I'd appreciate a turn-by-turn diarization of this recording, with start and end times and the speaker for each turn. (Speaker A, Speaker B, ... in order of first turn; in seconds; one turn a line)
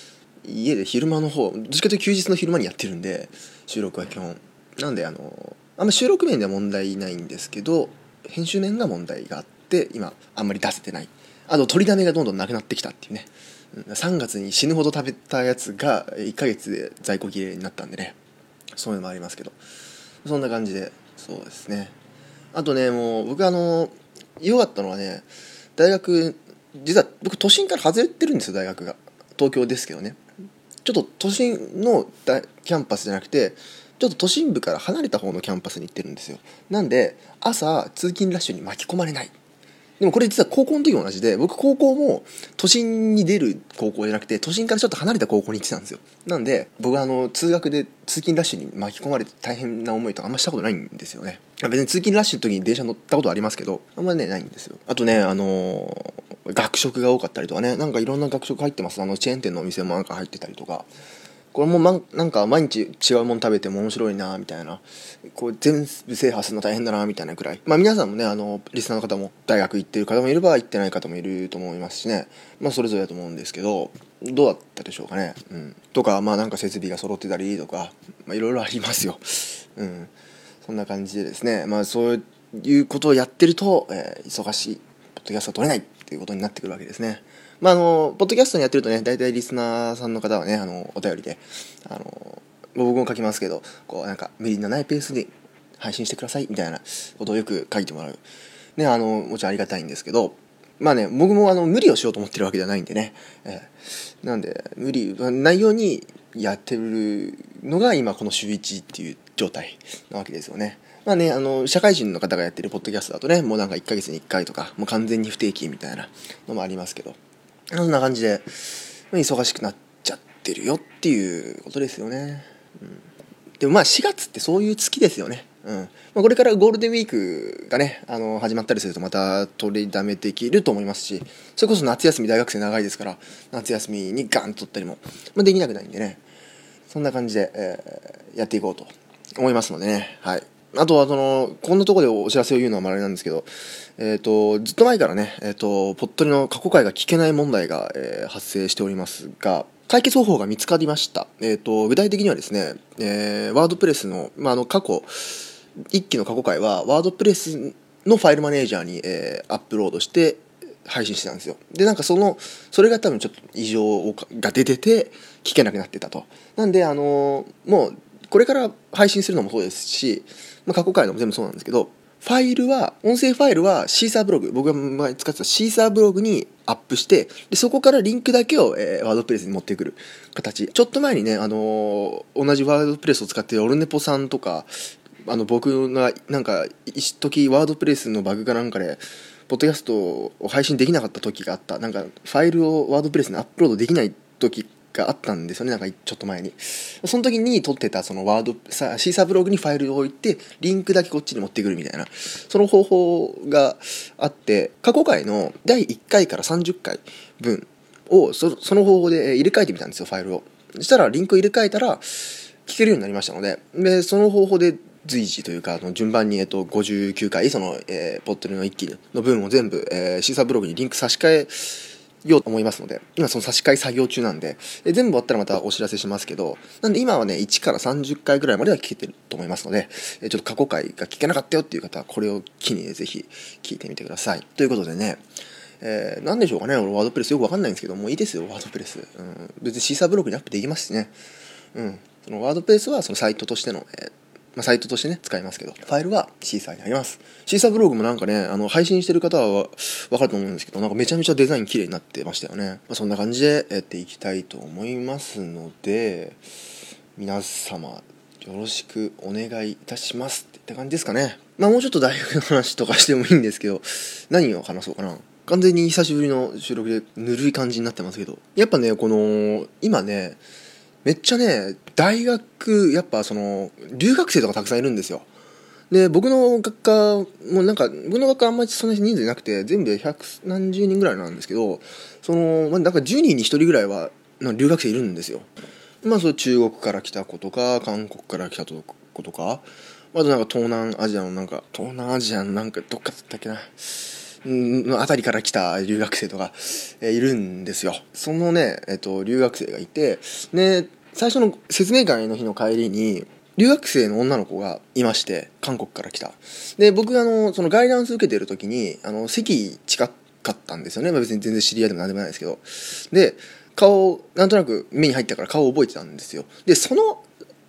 Speaker A: 0.4-18.2
Speaker A: 18.8-19.6
Speaker A: 20.2-21.9
Speaker A: 22.5-30.2
Speaker A: 30.9-39.3
Speaker A: 40.0-60.9
Speaker A: 61.5-80.1
Speaker A: 80.6-98.2
Speaker A: 98.8-117.2
Speaker A: 117.7-123.0
Speaker A: 123.6-136.2
Speaker A: 136.9-184.7
Speaker A: 185.2-235.2
Speaker A: 235.8-241.1
Speaker A: 241.7-256.4
Speaker A: 257.2-270.4
Speaker A: 271.0-275.3
Speaker A: 275.9-285.5
Speaker A: 286.0-317.2